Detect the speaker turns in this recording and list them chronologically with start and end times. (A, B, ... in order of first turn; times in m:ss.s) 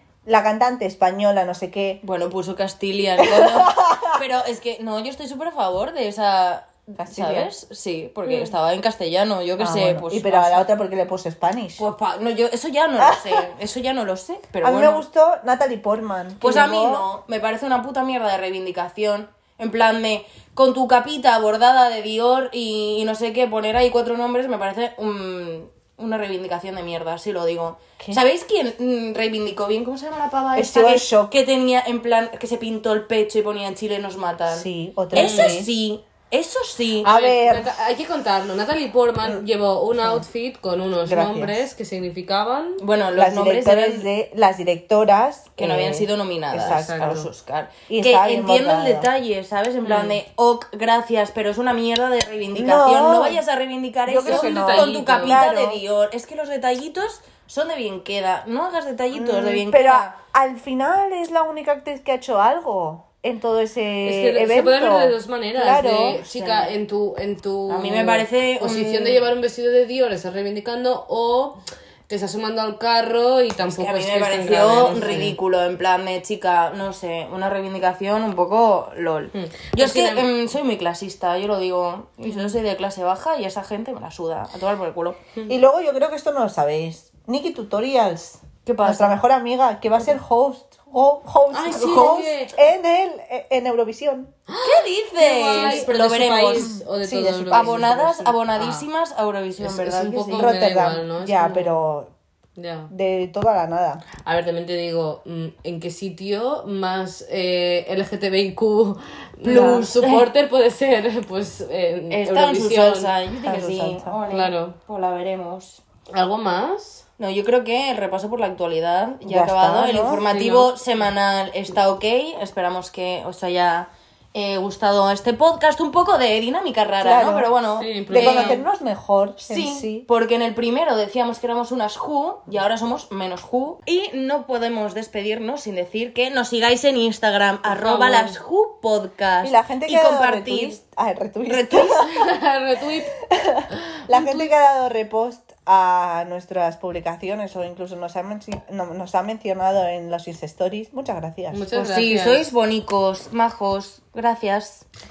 0:00.2-0:02.0 A
0:02.0-0:10.7 B
0:03.2-0:04.2 A
0:07.0-0:07.5 A
0:09.6-0:11.8 A
0:11.8-0:15.0 B
0:13.0-0:13.4 A
0:14.6-0:17.0 A
0:16.4-0:37.1 B
0:30.5-0:31.4 A
0:34.5-0:35.7 A
0:35.1-0:35.6 C
0:37.0-0:37.7 A
0:37.0-0:42.8 C
0:40.0-0:40.2 A
0:41.0-0:41.7 A
0:42.8-0:44.1 B
0:43.1-0:47.3 A
0:45.6-1:00.1 B
0:46.6-0:47.3 C
0:47.9-0:49.1 A
0:49.8-0:50.2 C
0:52.5-0:53.4 A
0:54.0-0:55.8 A
0:54.2-0:55.4 C
0:59.1-1:06.7 A
1:04.0-1:15.4 C
1:07.7-1:09.3 B
1:13.6-1:25.3 B
1:19.3-1:20.3 C
1:25.5-1:34.3 A
1:28.6-1:29.2 B
1:31.5-1:32.6 C
1:34.5-1:38.9 C
1:34.6-1:40.5 B
1:35.5-1:35.9 A
1:36.5-1:37.9 A
1:39.6-1:41.8 C
1:40.3-1:42.1 A
1:42.6-1:42.9 C
1:42.9-1:44.0 A
1:44.2-1:53.1 C
1:49.4-1:50.3 B
1:49.5-1:49.8 A
1:52.1-1:55.8 B
1:53.4-1:54.2 A
1:54.3-1:54.8 C
1:56.1-1:57.0 C
1:57.2-2:08.6 B
1:59.2-2:00.2 A
2:00.3-2:00.7 C
2:07.0-2:07.5 A
2:07.8-2:08.6 C
2:08.1-2:10.0 A
2:09.4-2:20.8 B
2:17.7-2:18.4 C
2:19.4-2:22.2 A
2:21.4-2:22.1 B
2:22.0-2:23.2 C
2:23.3-2:32.0 A
2:23.7-2:24.5 C
2:31.5-2:32.5 C
2:31.8-2:34.8 B